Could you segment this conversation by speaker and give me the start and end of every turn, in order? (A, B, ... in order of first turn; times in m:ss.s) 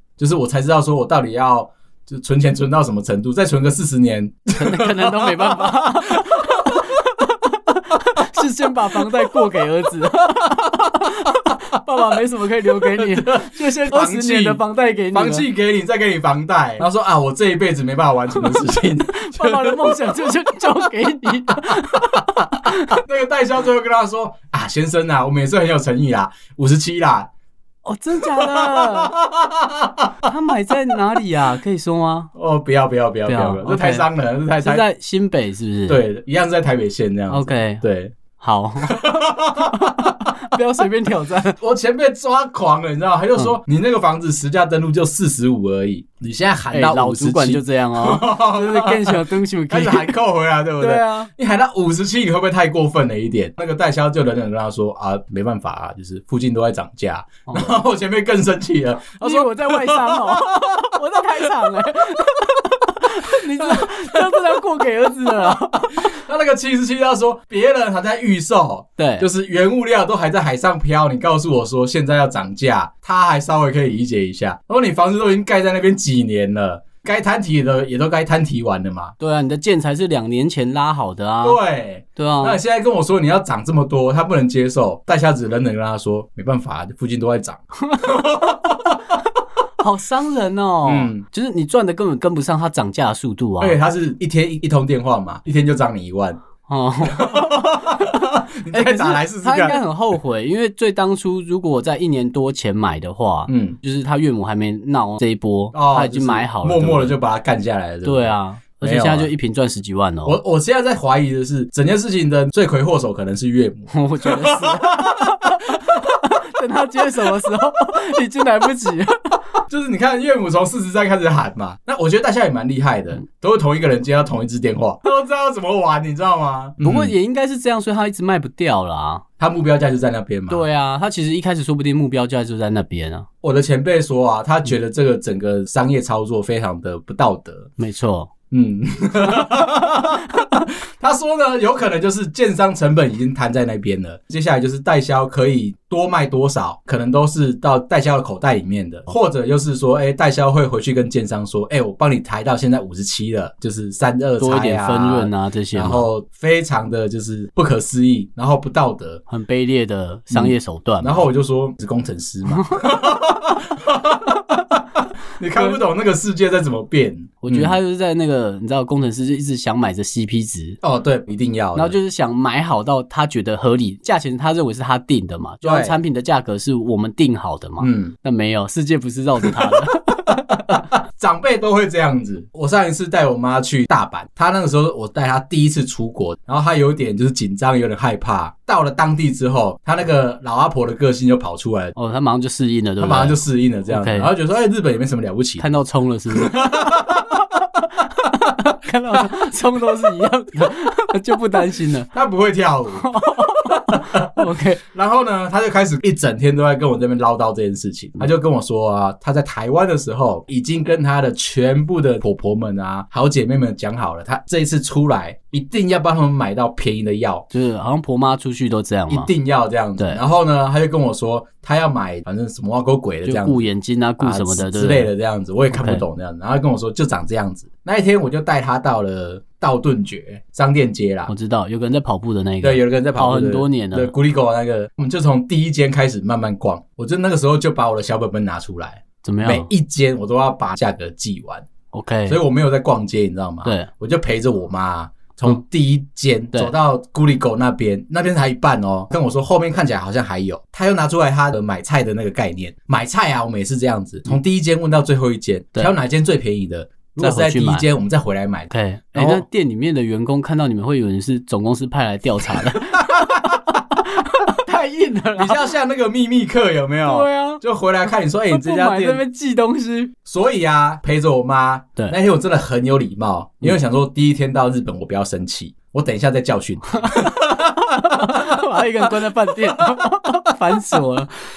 0:00.2-0:06.8 A
0:04.6-0:15.5 B
0:12.8-0:20.3 A
0:18.4-0:23.0 B
0:22.9-0:27.3 A
0:27.8-0:29.2 B
0:28.2-0:30.1 A
0:30.2-0:32.3 B
0:32.4-0:34.8 A
0:33.3-0:36.0 B
0:35.9-0:38.2 A
0:37.3-0:37.8 B
0:38.4-0:41.6 B
0:38.9-0:40.4 A
0:41.6-1:01.4 A
0:46.7-0:50.2 B
0:50.8-0:51.3 B
0:57.5-0:57.8 B
0:59.2-1:06.1 B
1:03.4-1:04.2 A
1:06.0-1:19.2 A
1:09.0-1:09.3 B
1:19.2-1:21.6 B
1:21.4-1:29.2 A
1:22.2-1:22.6 B
1:29.8-1:33.8 B
1:30.8-1:31.2 A
1:33.6-1:36.4 A
1:36.7-1:47.2 B
1:37.0-1:39.8 A
1:43.5-1:43.8 A
1:45.7-1:49.3 A
1:48.0-1:50.4 B
1:50.2-1:56.2 A
1:53.9-1:59.4 B
1:59.7-2:07.1 A
2:06.8-2:09.2 B
2:09.4-2:10.6 A
2:10.5-2:13.3 B
2:13.4-2:17.7 A
2:17.8-2:18.3 B
2:18.5-2:39.2 A
2:19.2-2:20.4 B
2:34.4-2:36.1 B
2:39.3-2:41.2 B
2:40.3-2:44.8 A
2:42.5-2:43.0 B
2:45.4-2:47.8 A
2:47.4-2:50.8 B
2:50.8-2:52.0 A
2:51.8-3:00.8 B
2:55.6-2:56.0 A
2:57.8-2:58.1 A
2:59.5-2:59.8 A
3:00.7-3:11.9 A
3:12.0-3:14.3 B
3:13.0-3:15.6 A
3:15.6-3:22.1 B
3:16.3-3:17.4 A
3:22.1-3:37.4 A
3:23.0-3:24.8 B
3:37.5-3:39.3 B
3:39.1-3:43.6 A
3:43.2-3:45.1 B
3:44.2-3:51.3 A
3:45.7-3:46.0 B
3:51.3-3:54.1 B
3:52.6-4:01.7 A
3:59.2-3:59.7 B
4:01.9-4:02.4 B
4:02.3-4:19.4 A
4:03.6-4:03.9 B
4:17.2-4:17.9 B
4:18.7-4:25.7 B
4:22.6-4:23.6 A
4:25.4-4:29.2 A
4:27.0-4:27.6 B
4:28.5-4:30.1 B
4:30.2-4:40.1 A
4:37.0-4:41.4 B